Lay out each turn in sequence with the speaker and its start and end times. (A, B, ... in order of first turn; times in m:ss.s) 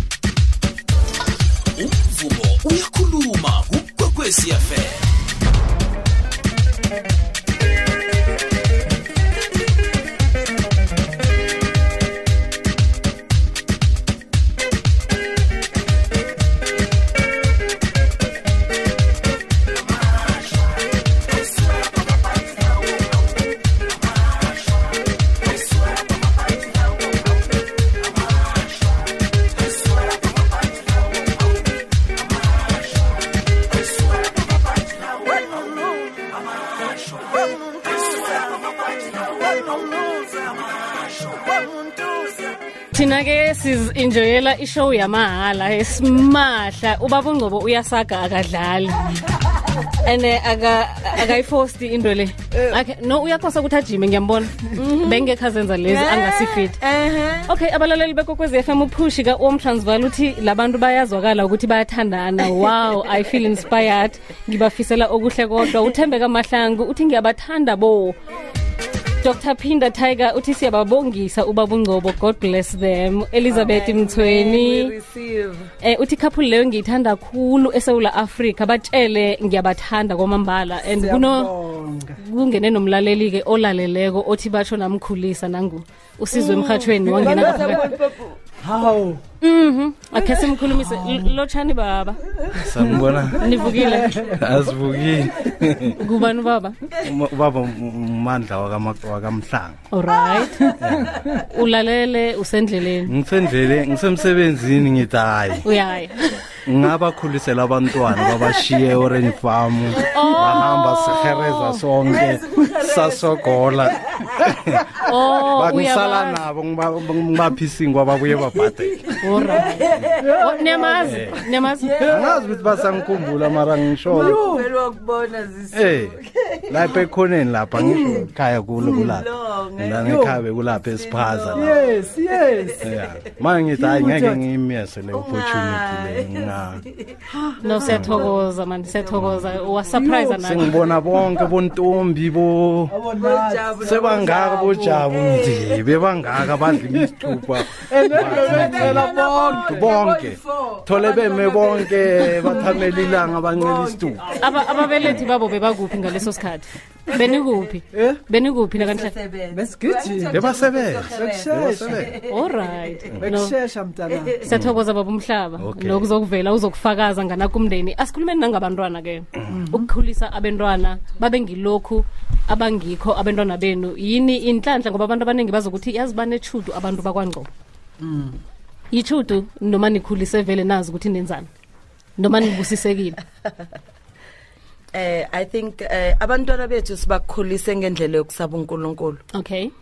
0:01.8-0:05.1 A
0:42.9-0:49.2 B
0:49.9-0:56.8 B
0:52.5-0:52.8 C
0:54.8-0:55.3 C
0:55.9-0:57.5 C
0:57.5-1:08.2 B
1:09.2-1:14.9 B
1:13.5-1:15.7 C
1:15.8-1:21.5 B
1:20.9-1:22.2 D
1:22.2-1:27.8 B
1:26.3-1:28.4 C
1:27.1-1:28.0 D
1:28.6-1:29.2 D
1:29.4-1:32.2 B
1:30.6-1:31.3 D
1:32.5-1:33.6 E
1:32.8-1:34.7 D
1:33.4-1:34.2 B
1:34.4-1:36.0 E
1:36.0-1:36.8 B
1:37.0-1:39.8 E
1:39.9-1:40.7 B
1:40.8-1:41.2 E
1:41.3-1:43.1 B
1:43.1-1:45.6 E
1:45.6-1:46.3 B
1:46.6-1:54.9 E
1:50.1-1:51.8 B
1:55.0-1:56.4 B
1:55.4-1:59.2 E
1:59.2-1:59.9 B
1:59.3-2:00.4 C
2:00.2-2:01.0 D
2:00.4-2:01.9 B
2:01.1-2:01.4 E
2:01.8-2:07.0 C
2:02.0-2:04.4 E
2:04.1-2:04.7 D
2:05.7-2:06.2 E
2:06.7-2:11.7 E
2:07.8-2:08.3 D
2:07.8-2:08.3 C
2:08.8-2:09.1 D
2:08.8-2:10.1 C
2:10.0-2:10.4 D
2:10.7-2:13.3 C
2:11.5-2:12.8 D
2:12.8-2:16.8 E
2:13.8-2:14.4 D
2:15.1-2:17.2 C
2:17.3-2:18.0 D
2:17.6-2:20.7 B
2:17.9-2:18.3 E
2:18.0-2:18.3 C
2:18.8-2:19.9 C
2:19.1-2:19.5 E
2:19.9-2:20.7 D
2:20.4-2:22.9 E
2:22.9-2:25.1 D
2:23.2-2:25.8 C
2:23.8-2:34.3 E
2:26.9-2:30.0 D
2:28.1-2:35.4 C
2:34.3-2:39.1 B
2:37.1-2:37.5 C
2:37.9-2:38.2 D
2:38.7-2:43.1 C
2:39.5-2:42.1 D
2:40.3-2:42.2 E
2:42.3-2:43.5 B
2:43.2-2:44.5 D
2:44.1-2:44.5 C
2:44.5-2:57.5 B
2:44.5-2:44.8 E
2:45.6-2:46.1 E
2:49.5-2:49.9 D
2:58.0-2:58.4 D
2:58.9-3:01.5 B
3:02.2-3:03.2 B
3:04.9-3:09.2 C
3:09.3-3:09.7 B